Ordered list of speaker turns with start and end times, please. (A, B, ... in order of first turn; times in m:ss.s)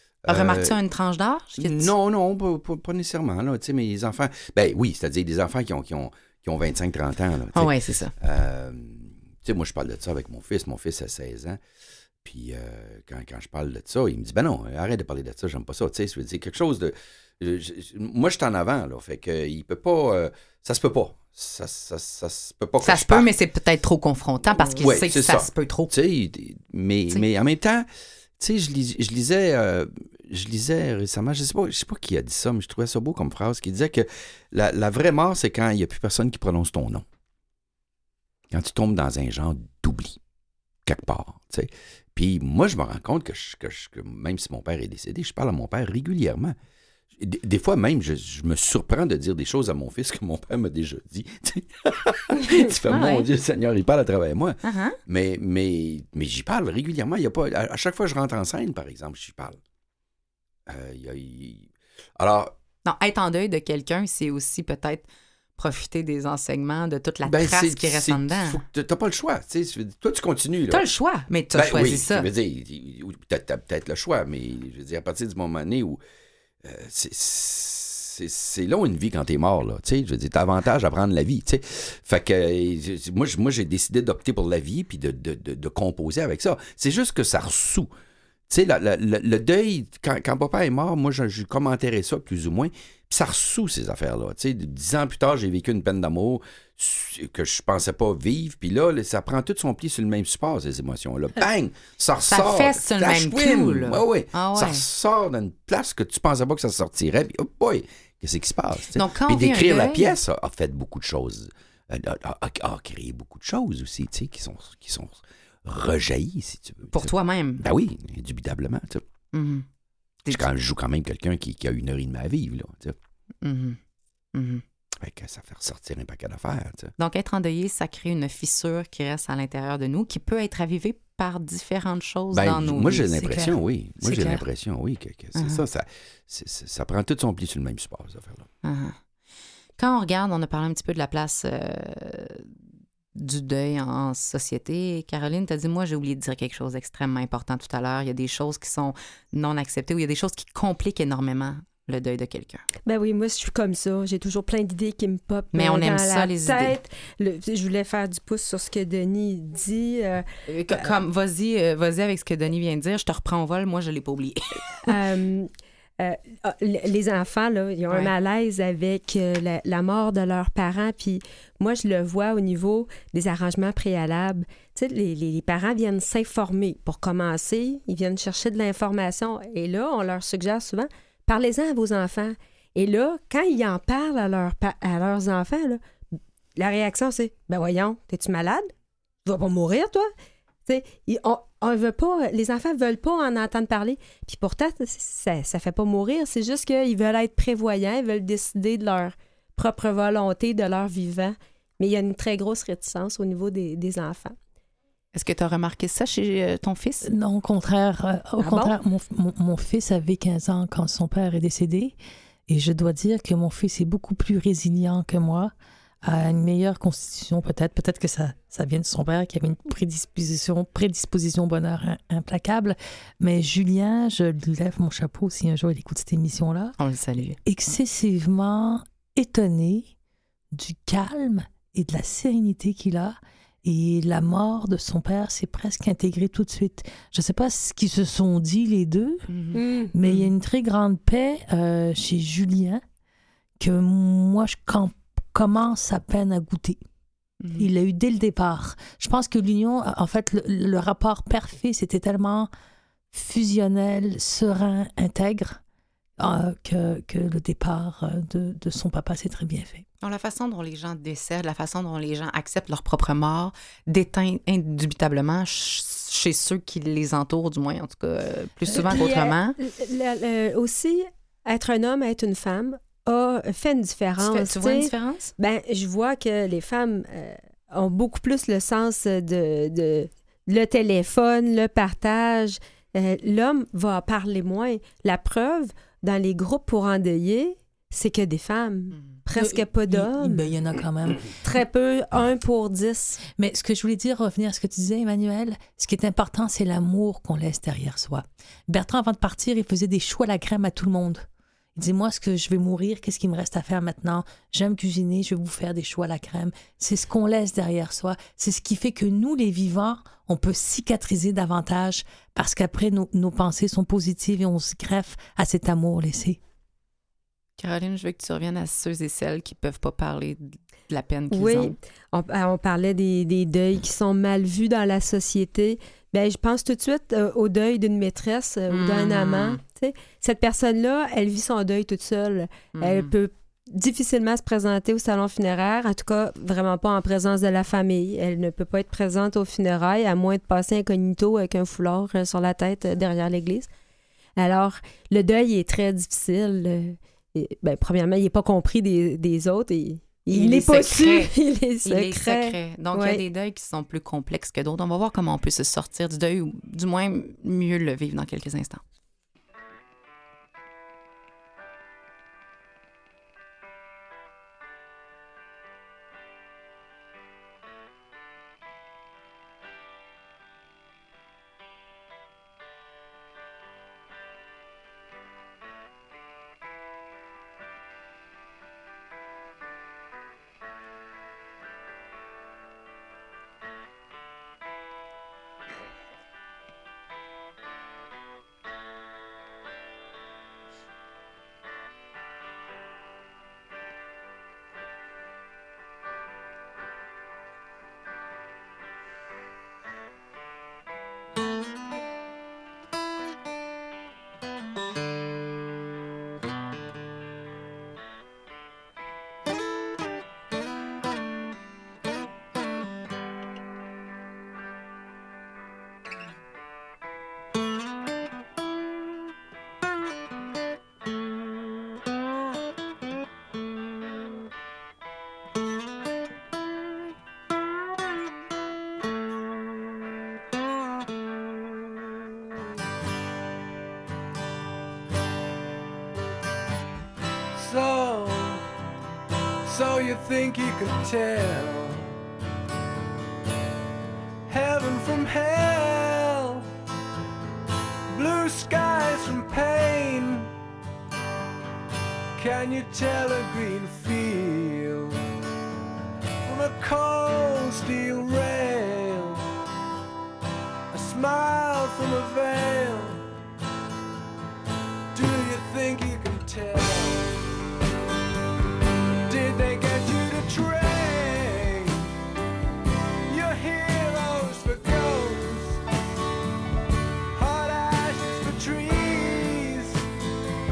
0:00.2-0:00.8 A
0:00.3-0:01.9 B
0:01.6-0:11.6 A
0:07.5-0:08.1 B
0:12.2-0:23.3 A
0:22.8-0:25.9 B
0:24.5-0:27.9 A
0:28.4-0:37.0 A
0:38.5-0:40.2 A
0:40.9-0:46.6 A
0:47.2-0:59.6 A
0:52.9-0:53.3 B
0:54.6-0:55.0 B
1:00.7-1:02.5 A
1:02.8-1:08.6 B
1:07.2-1:10.8 A
1:10.7-1:12.3 B
1:11.5-1:16.0 A
1:16.6-1:27.9 A
1:28.5-1:59.0 A
1:42.3-1:44.8 B
1:48.9-1:50.2 B
1:56.9-1:57.6 B
1:59.3-1:59.7 B
2:00.3-2:03.0 A
2:03.4-2:03.8 B
2:04.3-2:04.6 B
2:05.0-2:06.9 A
2:07.0-2:13.4 B
2:12.3-2:18.5 A
2:13.2-2:14.4 C
2:15.4-2:15.6 B
2:18.6-2:19.0 B
2:19.8-2:22.5 B
2:23.2-2:32.6 B
2:32.9-2:40.2 D
2:35.5-2:36.8 B
2:40.5-2:44.9 B
2:44.9-3:05.8 D
3:06.6-3:08.7 D
3:09.2-3:10.1 D
3:10.7-3:24.4 D
3:25.1-3:27.1 B
3:27.1-3:32.0 C
3:28.4-3:28.8 D
3:32.5-3:46.8 C
3:46.8-3:47.4 B
3:47.3-3:49.9 C
3:50.5-3:59.3 C
3:59.3-4:00.3 B
3:59.5-3:59.9 D
3:59.9-4:02.8 C
4:03.6-4:06.8 C
4:07.4-4:07.7 B
4:07.6-4:12.5 C
4:13.1-4:15.6 C
4:16.2-4:19.8 C
4:20.0-4:29.6 B
4:28.7-4:50.4 D
4:34.2-4:35.3 B
4:49.3-4:51.3 C
4:51.3-4:53.2 D
4:53.3-5:16.4 C
5:17.6-5:21.8 B
5:21.3-5:43.7 D
5:28.7-5:29.6 B
5:32.8-5:33.1 B
5:44.4-5:53.2 D
5:50.3-5:51.3 B
5:51.8-5:58.8 B
7:17.5-7:18.6 E
7:19.6-7:22.1 E
7:24.5-7:26.7 E
7:28.1-7:30.5 E
7:32.4-7:35.3 E
7:36.4-7:39.4 E
7:40.9-7:43.2 E
7:45.1-7:47.4 E
7:49.3-7:52.1 E
7:53.3-7:55.8 E
7:57.3-8:00.0 E